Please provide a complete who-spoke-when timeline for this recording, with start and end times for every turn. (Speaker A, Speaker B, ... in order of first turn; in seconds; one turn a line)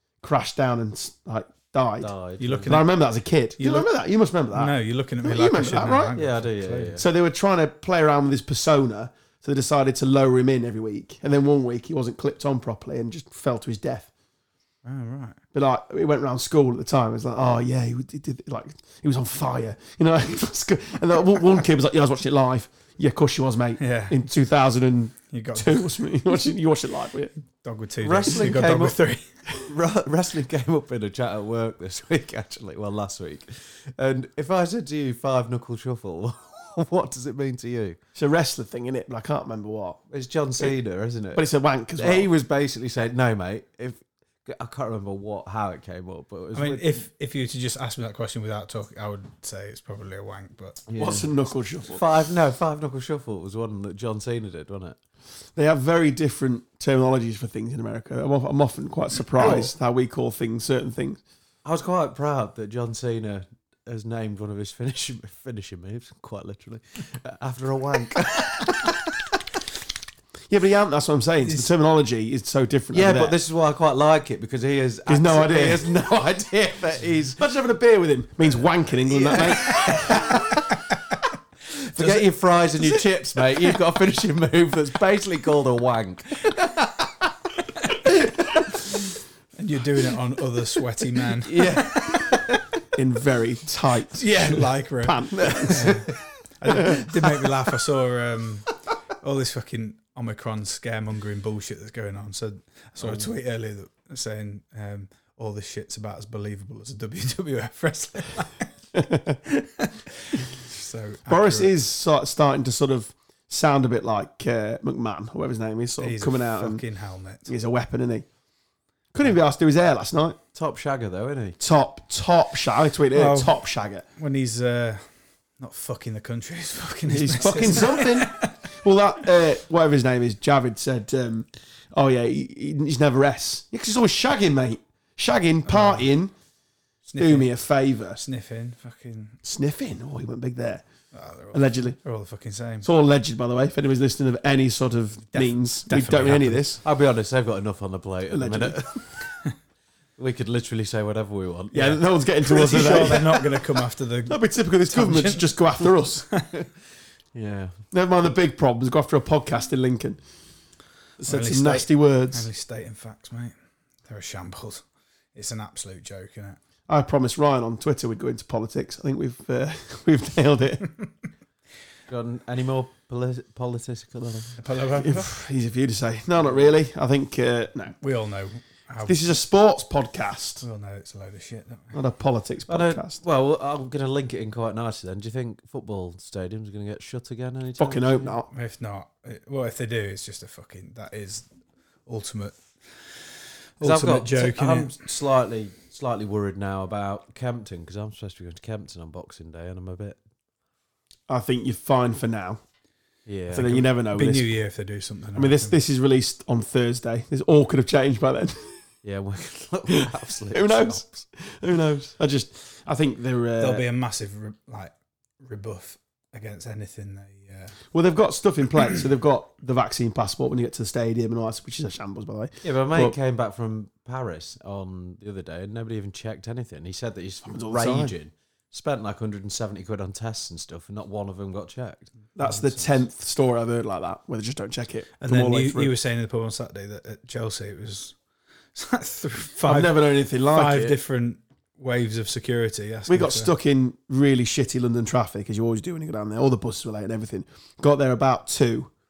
Speaker A: 0.2-2.1
Speaker B: 2.0-2.7
Speaker C: 2.4-2.9
Speaker A: 2.6-6.1
Speaker C: 3.6-3.9
Speaker C: 4.5-7.0
Speaker B: 6.1-7.0
Speaker A: 7.0-14.1
Speaker C: 14.8-15.4
Speaker A: 15.5-27.3
Speaker C: 23.8-24.2
Speaker C: 25.3-26.0
Speaker C: 27.6-29.3
Speaker B: 28.0-29.0
Speaker B: 29.6-38.0
Speaker A: 38.1-40.0
Speaker B: 40.1-41.4
Speaker A: 41.3-42.3
Speaker B: 42.0-47.0
Speaker C: 46.5-50.8
Speaker B: 50.9-51.3
Speaker A: 51.0-52.0
Speaker B: 51.9-55.0
Speaker A: 55.5-61.2
Speaker B: 59.4-59.7
Speaker B: 61.6-69.0
Speaker A: 70.5-73.4
Speaker B: 72.9-77.4
Speaker A: 75.1-75.9
Speaker A: 77.4-80.5
Speaker B: 79.3-79.8
Speaker B: 81.9-87.1
Speaker C: 82.0-82.2
Speaker C: 89.5-92.3
Speaker B: 91.4-92.6
Speaker A: 92.9-96.1
Speaker C: 94.1-108.7
Speaker B: 95.6-96.0
Speaker A: 96.7-97.2
Speaker A: 108.9-109.4
Speaker C: 109.5-111.7
Speaker A: 111.3-116.8
Speaker C: 116.0-117.5
Speaker A: 117.5-118.2
Speaker A: 119.1-120.4
Speaker B: 120.5-121.6
Speaker A: 121.6-124.0
Speaker C: 123.1-123.6
Speaker C: 124.1-125.0
Speaker C: 125.6-128.6
Speaker A: 127.1-136.3
Speaker C: 135.7-136.1
Speaker C: 137.1-137.5
Speaker A: 137.2-138.2
Speaker C: 138.2-139.4
Speaker A: 139.4-140.8
Speaker C: 141.1-142.9
Speaker A: 141.5-142.0
Speaker A: 142.8-146.8
Speaker C: 145.3-146.7
Speaker B: 146.8-149.0
Speaker A: 148.3-148.8
Speaker B: 150.2-151.9
Speaker A: 151.7-153.7
Speaker C: 151.8-156.5
Speaker A: 154.2-156.3
Speaker B: 157.3-157.8
Speaker A: 157.9-160.2
Speaker A: 161.2-162.4
Speaker C: 161.2-163.5
Speaker C: 164.1-166.6
Speaker A: 166.9-170.9
Speaker B: 172.1-174.6
Speaker C: 174.6-175.3
Speaker A: 174.9-177.9
Speaker C: 178.0-179.2
Speaker A: 179.1-180.6
Speaker C: 180.6-181.9
Speaker A: 181.9-183.2
Speaker B: 182.7-188.3
Speaker A: 187.8-188.5
Speaker C: 188.5-191.5
Speaker C: 192.1-193.1
Speaker C: 193.8-194.9
Speaker B: 193.8-200.2
Speaker A: 201.3-202.6
Speaker B: 203.2-203.8
Speaker A: 203.5-204.5
Speaker C: 203.8-205.8
Speaker A: 205.3-208.8
Speaker B: 209.0-211.0
Speaker A: 209.9-213.8
Speaker C: 213.6-217.7
Speaker A: 217.9-223.2
Speaker B: 222.6-232.1
Speaker A: 227.4-228.1
Speaker A: 232.3-235.9
Speaker C: 232.4-232.9
Speaker C: 235.2-238.1
Speaker C: 238.7-243.5
Speaker A: 239.6-240.9
Speaker A: 243.1-248.9